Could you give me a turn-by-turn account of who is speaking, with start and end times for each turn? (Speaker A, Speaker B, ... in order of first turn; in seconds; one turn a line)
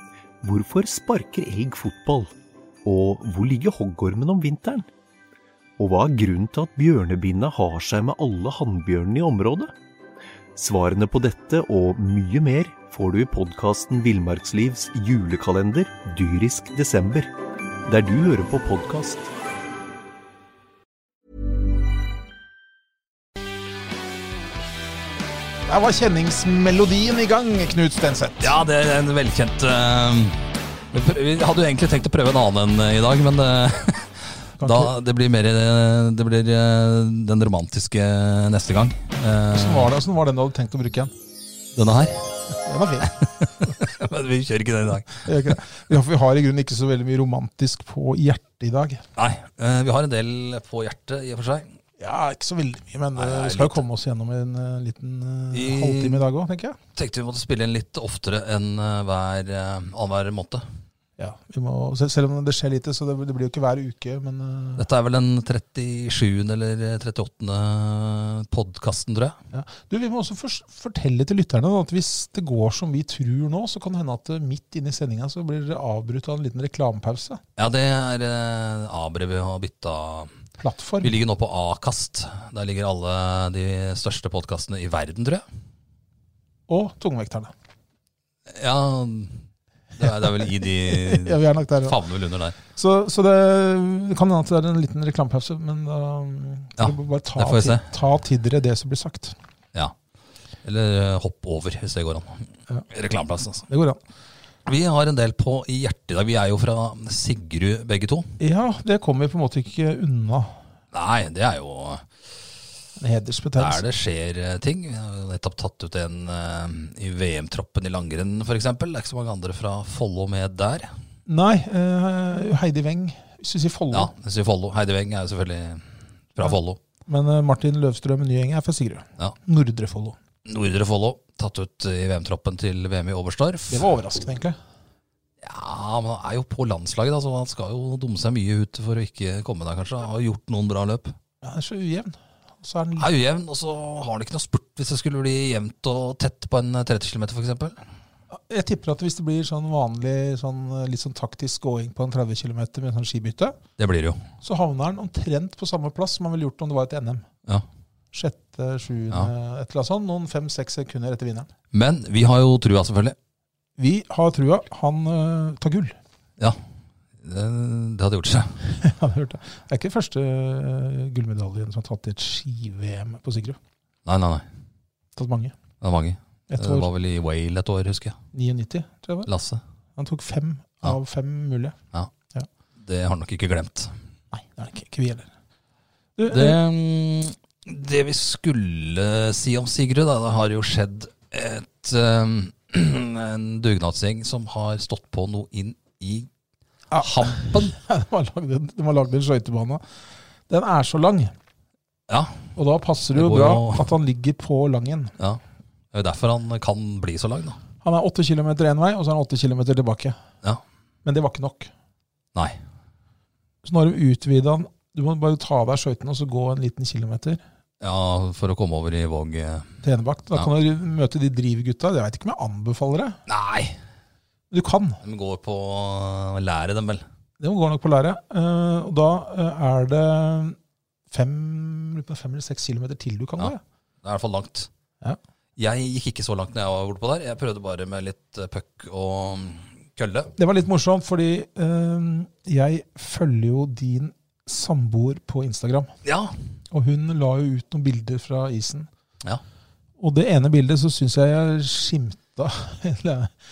Speaker A: 0.4-2.3
Speaker A: 2.9-4.9
Speaker A: 5.8-9.7
Speaker A: 10.6-17.3
Speaker A: 17.9-19.3
Speaker B: 25.7-28.6
Speaker C: 28.4-30.4
Speaker C: 30.9-39.9
Speaker B: 34.6-34.9
Speaker B: 39.5-41.1
Speaker C: 41.8-42.3
Speaker B: 42.5-43.1
Speaker C: 43.2-45.6
Speaker B: 45.2-49.0
Speaker C: 49.2-51.7
Speaker B: 52.0-56.8
Speaker C: 53.2-53.8
Speaker C: 55.5-56.2
Speaker C: 57.0-60.6
Speaker B: 61.2-64.9
Speaker C: 64.8-69.4
Speaker B: 69.5-77.4
Speaker C: 77.6-80.3
Speaker B: 80.6-81.2
Speaker C: 81.0-85.4
Speaker B: 86.7-87.5
Speaker C: 88.5-89.4
Speaker C: 90.0-92.6
Speaker B: 90.9-92.0
Speaker B: 92.7-99.4
Speaker C: 96.8-97.9
Speaker C: 100.6-103.7
Speaker B: 103.7-104.0
Speaker C: 104.7-108.3
Speaker B: 108.4-110.5
Speaker C: 110.9-112.1
Speaker B: 113.0-113.8
Speaker C: 113.6-120.9
Speaker B: 121.3-124.1
Speaker C: 123.9-126.8
Speaker B: 127.1-130.2
Speaker C: 130.5-133.9
Speaker B: 133.7-134.6
Speaker C: 135.4-141.2
Speaker B: 141.4-143.1
Speaker C: 143.0-147.8
Speaker B: 148.3-153.6
Speaker C: 153.8-154.2
Speaker B: 154.4-157.3
Speaker B: 158.1-161.5
Speaker C: 161.7-163.2
Speaker B: 163.8-166.0
Speaker C: 167.2-168.6
Speaker B: 168.7-173.6
Speaker C: 174.1-174.4
Speaker B: 175.2-175.6
Speaker C: 175.8-178.2
Speaker B: 176.5-176.9
Speaker B: 178.3-179.3
Speaker C: 179.3-179.6
Speaker B: 180.0-181.8
Speaker C: 182.8-183.9
Speaker B: 184.3-185.3
Speaker B: 186.2-186.6
Speaker C: 186.3-196.3
Speaker B: 196.9-199.8
Speaker C: 197.0-197.7
Speaker B: 200.5-201.3
Speaker C: 202.1-202.5
Speaker B: 202.6-205.1
Speaker C: 203.1-203.9
Speaker C: 205.9-207.6
Speaker B: 207.8-210.2
Speaker B: 211.1-211.7
Speaker B: 213.6-217.4
Speaker C: 217.8-219.7
Speaker B: 219.8-223.2
Speaker C: 223.3-223.8
Speaker B: 224.5-225.0
Speaker C: 225.0-227.1
Speaker B: 227.4-230.6
Speaker B: 231.1-233.6
Speaker C: 233.4-234.7
Speaker C: 235.6-240.3
Speaker B: 240.4-245.9
Speaker C: 246.1-246.3
Speaker B: 246.7-248.9
Speaker B: 250.0-253.3